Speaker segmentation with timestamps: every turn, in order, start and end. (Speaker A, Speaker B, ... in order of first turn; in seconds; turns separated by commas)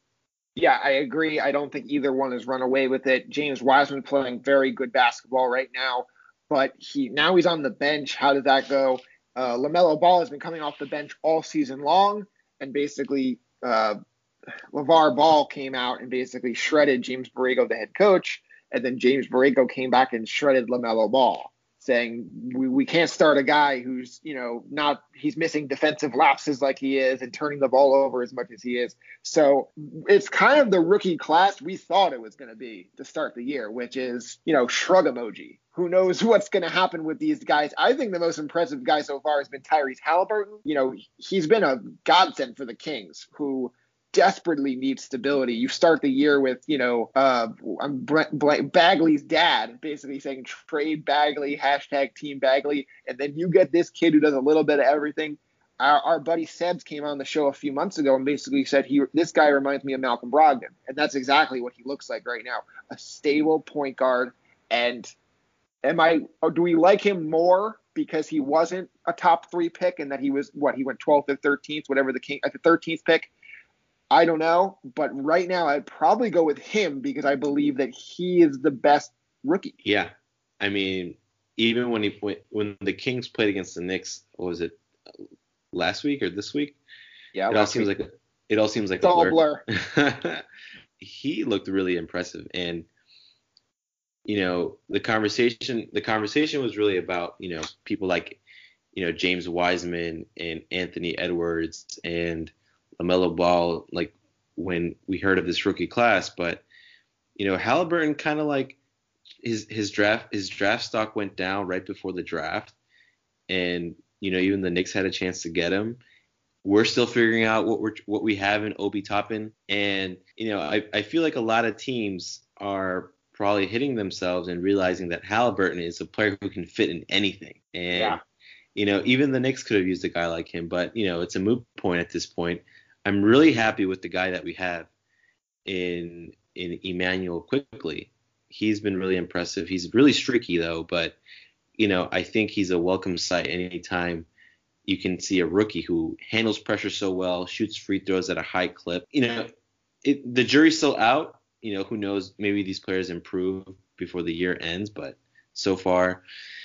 Speaker A: 0.6-14.0, Speaker A: 14.7-65.1, Speaker A: 65.8-73.3, Speaker A: 74.1-79.7, Speaker B: 79.8-84.8, Speaker B: 85.7-86.8, Speaker A: 87.3-87.9, Speaker B: 87.5-90.4, Speaker A: 89.0-89.6, Speaker B: 91.0-92.9, Speaker B: 94.3-98.4, Speaker B: 98.9-106.6, Speaker B: 107.4-108.8, Speaker B: 109.4-112.8, Speaker B: 113.5-116.0, Speaker B: 116.6-128.2, Speaker A: 127.9-128.2, Speaker B: 128.8-134.9, Speaker B: 135.7-141.2, Speaker B: 141.8-144.3, Speaker B: 144.9-149.5, Speaker B: 150.0-156.2